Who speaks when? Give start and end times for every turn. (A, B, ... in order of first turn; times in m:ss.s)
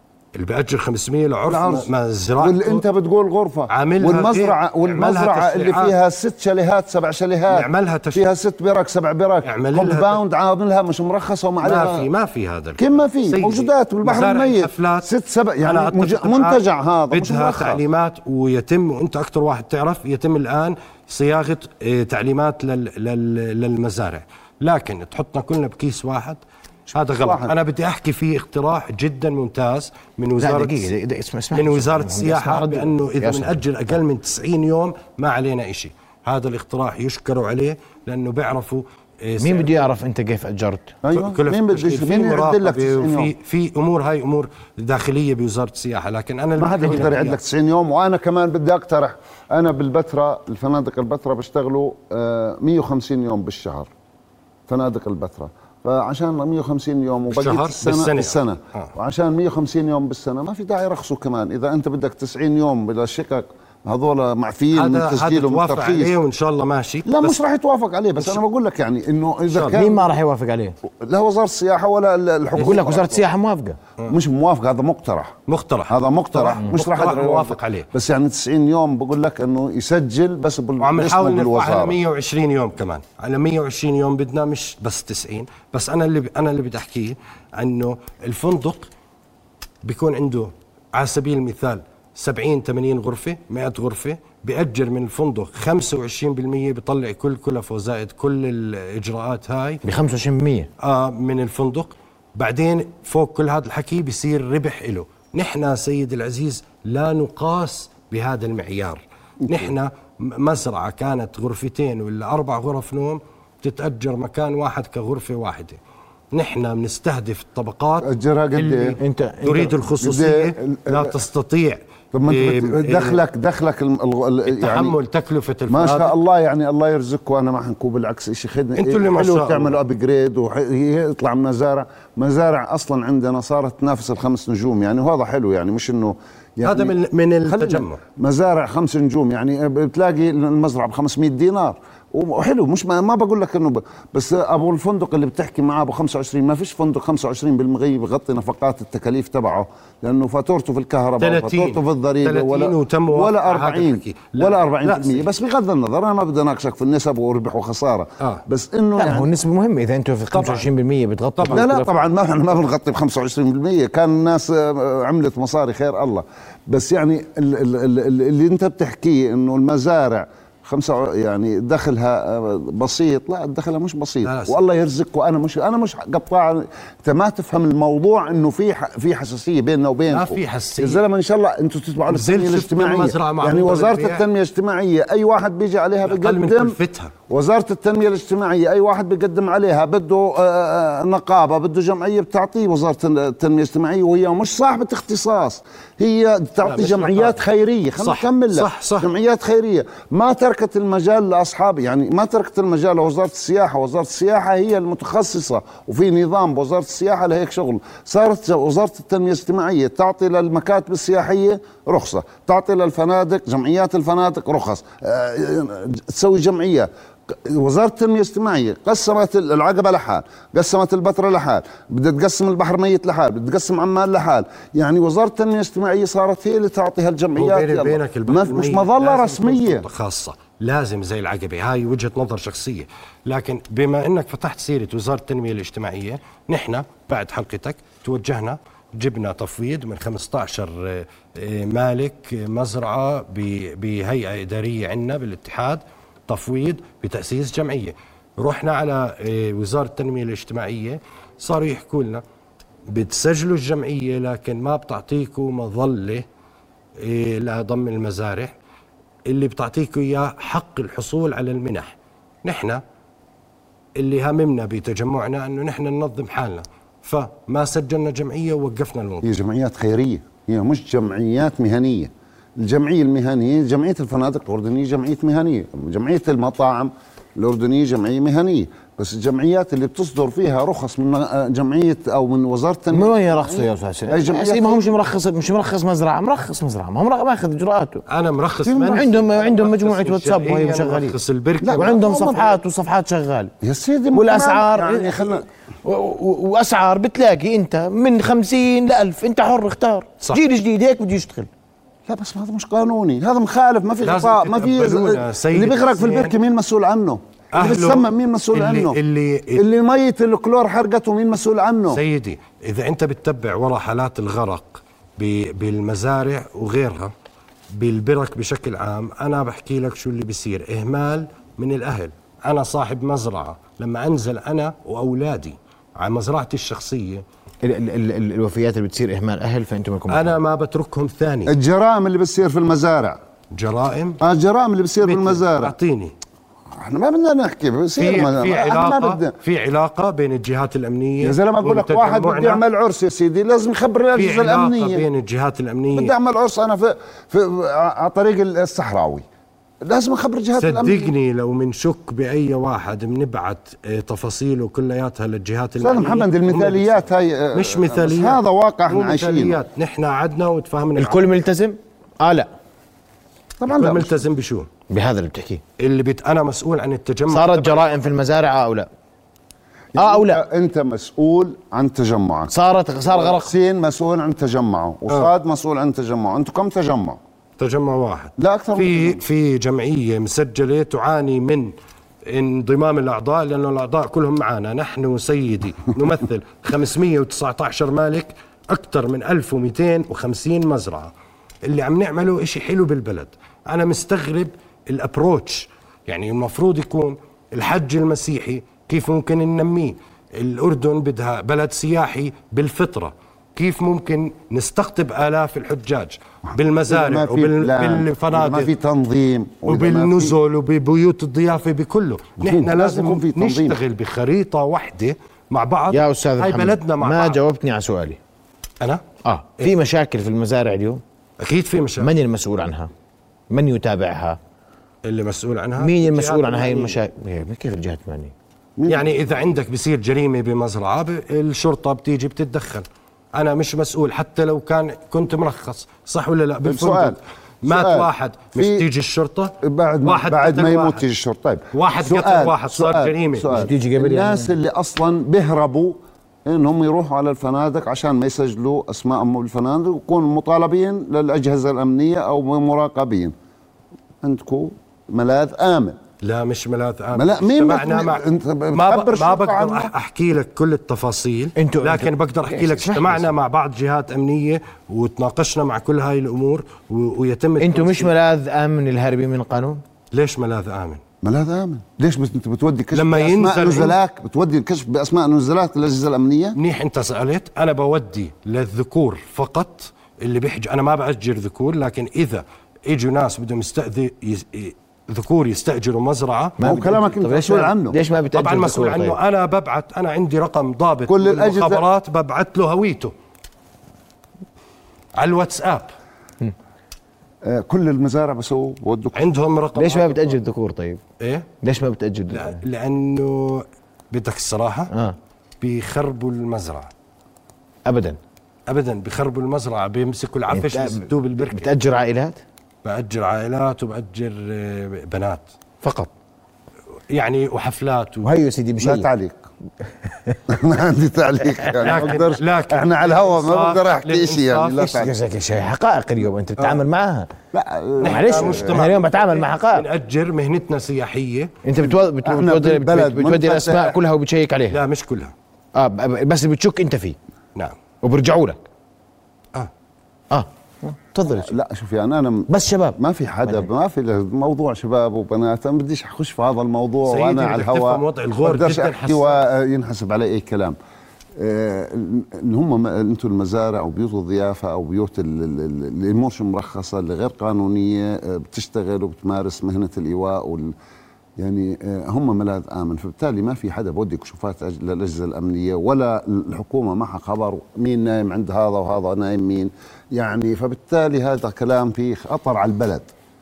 0:00.3-0:02.8 A
0:01.5-0:12.1 B
0:03.7-0:05.9 A
0:07.5-0:08.2 A
0:09.4-0:10.2 A
0:11.6-0:15.1 A
0:12.8-0:17.8 B
0:15.6-0:26.4 A
0:26.9-0:27.5 B
0:26.9-0:30.9 A
0:30.4-0:33.6 C
0:31.5-0:39.8 A
0:39.4-0:40.9 C
0:41.0-0:43.3 B
0:41.1-0:47.4 A
0:46.6-0:53.9 B
0:54.7-1:06.1 B
0:57.3-0:58.9 A
1:04.7-1:07.4 A
1:07.0-1:10.1 B
1:09.5-1:09.8 A
1:09.7-1:10.7 C
1:10.8-1:13.2 B
1:12.6-1:12.9 A
1:12.6-1:13.8 C
1:14.1-1:15.3 B
1:15.5-1:17.9 A
1:15.9-1:22.0 B
1:20.8-1:28.9 A
1:29.8-1:39.8 A
1:39.8-1:40.7 C
1:40.8-1:55.8 A
1:56.3-2:03.2 A
1:58.0-1:59.0 B
1:59.0-1:59.8 C
2:00.0-2:01.1 B
2:02.1-2:05.0 B
2:04.5-2:06.1 A
2:05.7-2:16.9 B
2:08.8-2:09.8 A
2:16.6-2:18.0 A
2:17.5-2:39.4 B
2:31.2-2:35.3 A
2:39.0-2:41.9 C
2:40.3-2:40.7 A
2:41.4-2:41.6 A
2:41.5-3:06.8 B
2:54.2-2:54.6 A
3:00.1-3:01.0 A
3:02.1-3:04.2 A
3:06.0-3:07.1 A
3:07.3-3:49.8 B
3:16.6-3:17.4 A
3:18.0-3:19.1 A
3:47.4-4:12.2 A
4:12.9-4:16.2 A
4:17.0-4:18.5 A
4:19.2-4:21.9 A
4:22.4-4:22.8 A
4:24.0-4:29.3 A
4:29.2-4:45.0 B
4:42.9-4:48.0 C
4:48.1-4:52.0 A
4:48.6-4:49.1 B
4:48.9-4:51.1 C
4:51.6-4:52.6 B
4:51.8-4:53.5 C
4:53.6-4:55.4 B
4:54.1-5:01.5 C
5:02.1-5:09.0 B
5:04.0-5:06.4 A
5:07.5-5:09.6 A
5:09.5-5:12.0 B
5:11.9-5:17.1 A
5:17.7-5:27.2 A
5:27.6-5:30.4 C
5:30.1-5:31.5 A
5:31.5-5:33.2 B
5:33.5-5:34.2 A
5:34.2-5:35.7 B
5:35.0-5:36.1 A
5:36.7-5:39.3 B
5:38.0-5:42.6 A
5:41.2-5:45.1 B
5:44.1-5:46.1 A
5:45.9-5:49.2 B
5:49.8-5:51.1 B
5:50.6-6:01.2 A
5:55.8-5:59.6 B
6:01.0-6:02.5 C
6:03.6-6:04.2 B
6:03.6-6:04.7 A
6:04.9-6:05.6 C
6:05.8-6:07.9 A
6:07.3-6:08.9 C
6:09.9-6:12.5 B
6:10.0-6:10.4 C
6:12.5-6:13.5 C
6:13.1-6:17.2 B
6:17.6-6:21.7 A
6:18.4-6:19.2 B
6:22.2-6:31.1 A
6:31.6-6:48.7 A
6:46.9-6:50.3 B
6:49.6-6:57.4 A
6:52.4-6:53.8 B
6:55.9-6:58.2 C
6:59.2-7:01.0 C
7:01.4-7:02.1 A
7:02.0-7:02.9 C
7:03.5-7:04.4 C
7:05.0-7:07.0 A
7:05.8-7:08.3 C
7:08.8-7:09.1 B
7:08.9-7:21.0 A
7:16.6-7:18.8 B
7:19.6-7:33.3 B
7:21.7-7:23.5 A
7:23.5-7:24.5 C
7:34.2-7:36.0 B
7:36.2-7:48.1 A
7:37.1-7:39.9 B
7:41.6-7:43.3 C
7:47.6-7:49.8 C
7:50.1-7:51.0 A
7:51.2-7:56.6 B
7:52.9-7:54.0 A
7:56.6-8:06.6 A
8:06.6-8:09.2 C
8:06.6-8:08.0 B
8:08.3-8:13.1 A
8:11.1-8:11.8 B
8:15.1-8:15.9 A
8:17.4-8:19.3 B
8:19.1-8:20.4 A
8:19.8-8:21.0 C
8:21.2-8:21.5 A
8:21.6-8:22.6 C
8:22.3-8:24.9 A
8:24.9-8:25.2 C
8:25.6-8:26.9 A
8:27.8-8:28.2 C
8:28.7-8:31.7 A
8:30.5-8:32.4 C
8:32.8-8:35.5 A
8:35.8-8:36.1 C
8:37.1-8:38.3 A
8:38.2-8:39.1 C
8:38.8-8:39.4 B
8:40.5-8:45.1 B
8:41.8-8:45.0 A
8:44.8-8:47.3 C
8:47.5-8:48.8 B
8:48.0-8:51.5 A
8:48.0-8:49.9 C
8:51.6-8:54.8 C
8:51.8-8:54.0 B
8:54.7-8:55.3 A
8:55.7-8:57.2 C
8:58.0-8:58.6 C
9:00.3-9:01.5 C
9:01.3-9:10.8 B
9:02.5-9:03.6 C
9:07.0-9:09.4 A
9:11.4-9:20.7 B
9:21.4-9:33.1 B